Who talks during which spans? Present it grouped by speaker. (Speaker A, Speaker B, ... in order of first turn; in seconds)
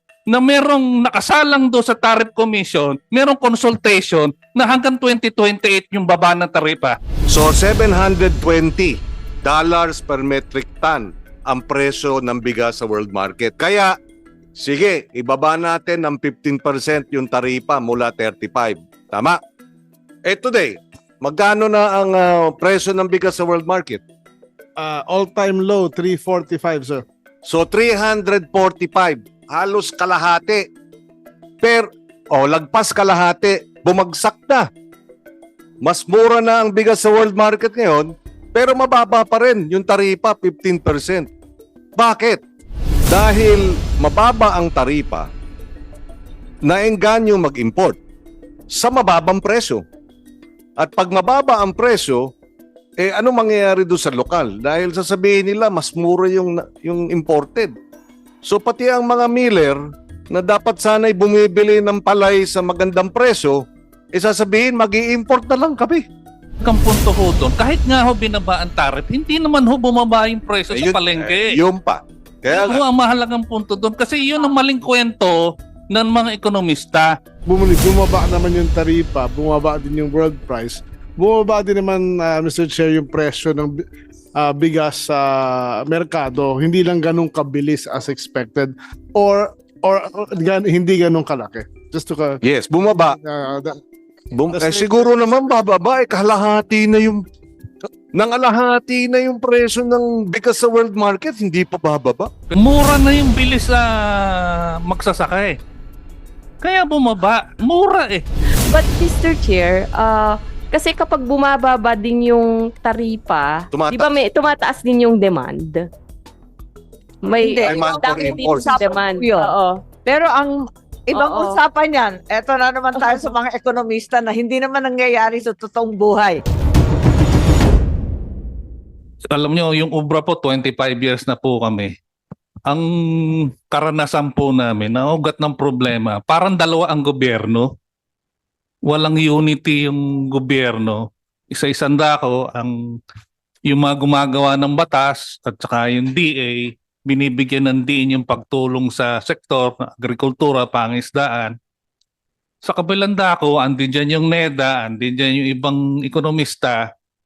Speaker A: 0.3-7.0, 66.6-71.6, 72.5-77.2, 102.5-105.6, 106.6-108.2, 129.3-131.9, 132.7-137.7, 138.9-143.0, 143.7-151.6, 152.6-156.9
Speaker B: 7.3-14.0, 14.6-19.4, 20.2-24.0, 27.5-30.7, 31.6-34.7, 35.8-41.3, 42.0-42.4, 43.1-45.3, 46.6-48.0, 48.7-49.8, 50.8-52.3, 53.0-57.7, 58.4-66.0, 70.7-72.8, 92.4-93.2, 94.3-97.2, 98.1-102.3, 113.7-114.1, 117.7-118.7
Speaker C: 24.8-27.1, 77.5-83.8, 84.3-92.4, 93.0-93.8, 94.5-95.1
Speaker D: 108.7-115.8, 117.2-119.8, 121.1-121.6, 123.0-123.3
Speaker E: 117.4-119.5, 120.0-126.4